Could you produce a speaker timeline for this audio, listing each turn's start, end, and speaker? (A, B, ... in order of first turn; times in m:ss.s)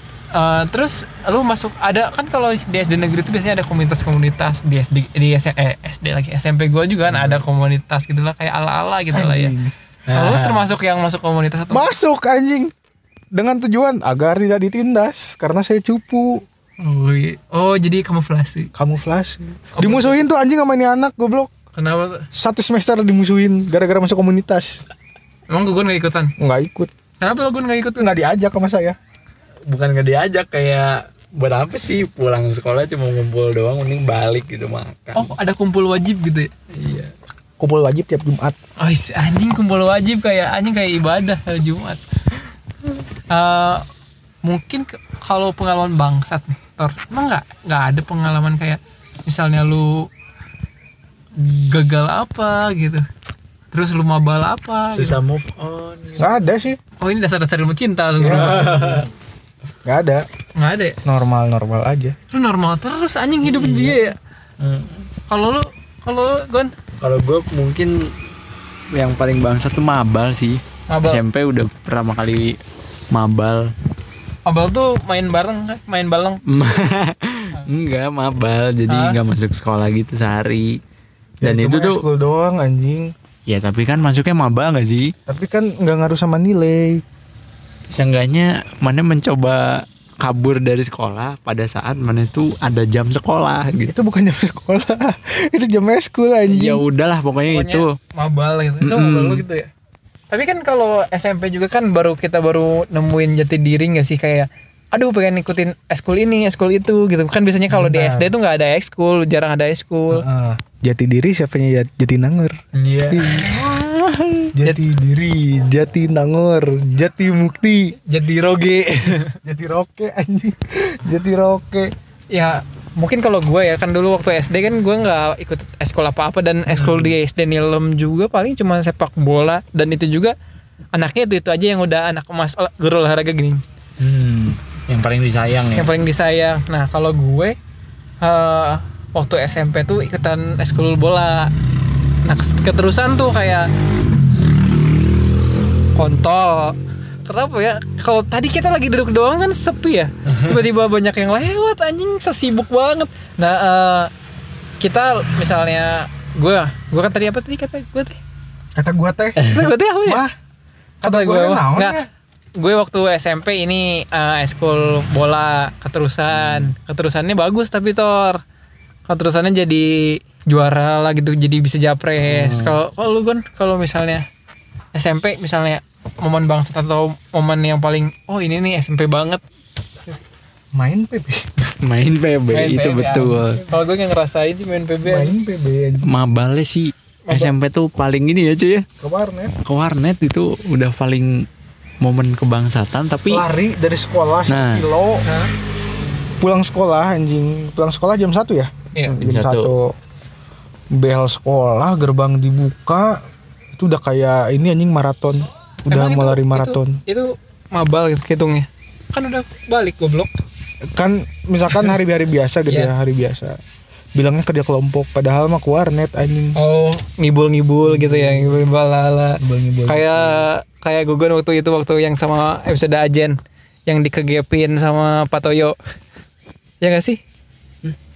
0:00.3-0:09.5 A
0:07.0-0:07.4 B
0:09.1-0:09.7 C
0:10.1-0:10.7 B
0:10.1-0:11.9 A
0:11.7-0:12.7 C
0:13.3-0:16.4 C
0:16.8-0:18.7 A
0:18.7-0:21.5 C
0:19.7-0:20.2 A
0:21.7-0:22.3 A
0:22.3-0:24.8 C
0:25.5-0:26.3 A
0:26.4-0:26.9 C
0:27.2-0:28.2 A
0:28.0-0:29.0 C
0:29.7-0:35.3 B
0:35.1-0:36.5 A
0:36.7-0:37.1 B
0:37.6-0:38.6 C
0:38.8-0:42.0 A
0:43.3-0:43.8 A
0:44.4-0:50.1 A
0:51.4-0:53.0 A
0:53.7-0:55.2 A
0:54.9-0:56.4 B
0:56.2-0:56.8 C
0:57.0-0:59.0 A
0:58.2-0:59.1 C
0:58.2-0:59.1 B
0:59.8-1:00.2 C
1:00.5-1:01.0 A
1:01.0-1:02.2 C
1:02.3-1:04.2 A
1:03.4-1:04.0 B
1:04.6-1:05.1 B
1:05.3-1:06.7 A
1:07.0-1:08.1 B
1:08.9-1:12.6 B
1:10.9-1:11.2 A
1:13.1-1:13.7 B
1:14.4-1:16.4 A
1:16.5-1:20.8 B
1:18.9-1:19.2 A
1:21.4-1:23.1 C
1:21.4-1:22.0 B
1:23.4-1:25.1 B
1:25.3-1:27.0 C
1:27.9-1:33.9 B
1:33.8-1:36.8 C
1:36.5-1:37.9 B
1:37.5-1:39.7 A
1:38.8-1:39.4 B
1:40.3-1:50.2 A
1:47.7-1:48.3 C
1:50.1-1:52.6 C
1:52.7-1:53.2 A
1:53.1-1:53.5 C
1:53.3-1:54.5 B
1:54.5-1:57.9 C
1:58.0-1:59.4 A
1:59.4-2:01.9 C
2:02.3-2:10.3 A
2:06.7-2:07.2 B
2:10.9-2:13.6 A
2:14.0-2:15.9 B
2:15.8-2:17.6 A
2:18.2-2:21.5 A
2:22.2-2:23.7 A
2:25.9-2:34.1 A
2:34.8-2:38.2 A
2:38.8-2:39.5 C
2:39.4-2:39.7 B
2:39.5-2:40.2 A
2:40.0-2:40.3 C
2:41.0-2:42.1 C
2:41.0-2:42.0 A
2:42.6-2:48.4 A
2:46.3-2:46.7 B
2:49.1-2:54.2 A
2:52.2-2:52.8 B
2:54.9-2:59.4 A
3:00.7-3:01.4 C
3:01.8-3:03.6 B
3:02.5-3:05.4 A
3:05.0-3:06.1 C
3:06.0-3:08.8 B
3:07.3-3:07.5 A
3:09.0-3:09.5 C
3:09.6-3:11.5 B
3:12.0-3:13.4 B
3:13.3-3:15.2 C
3:14.5-3:14.8 B
3:15.2-3:15.5 A
3:16.4-3:19.9 C
3:19.2-3:19.7 B
3:20.9-3:23.2 C
3:23.8-3:27.0 C
3:25.9-3:30.3 A
3:30.9-3:33.6 C
3:32.7-3:32.9 A
3:34.2-3:36.6 C
3:36.5-3:45.8 A
3:37.8-3:38.7 C
3:39.4-3:40.5 C
3:46.8-3:47.2 A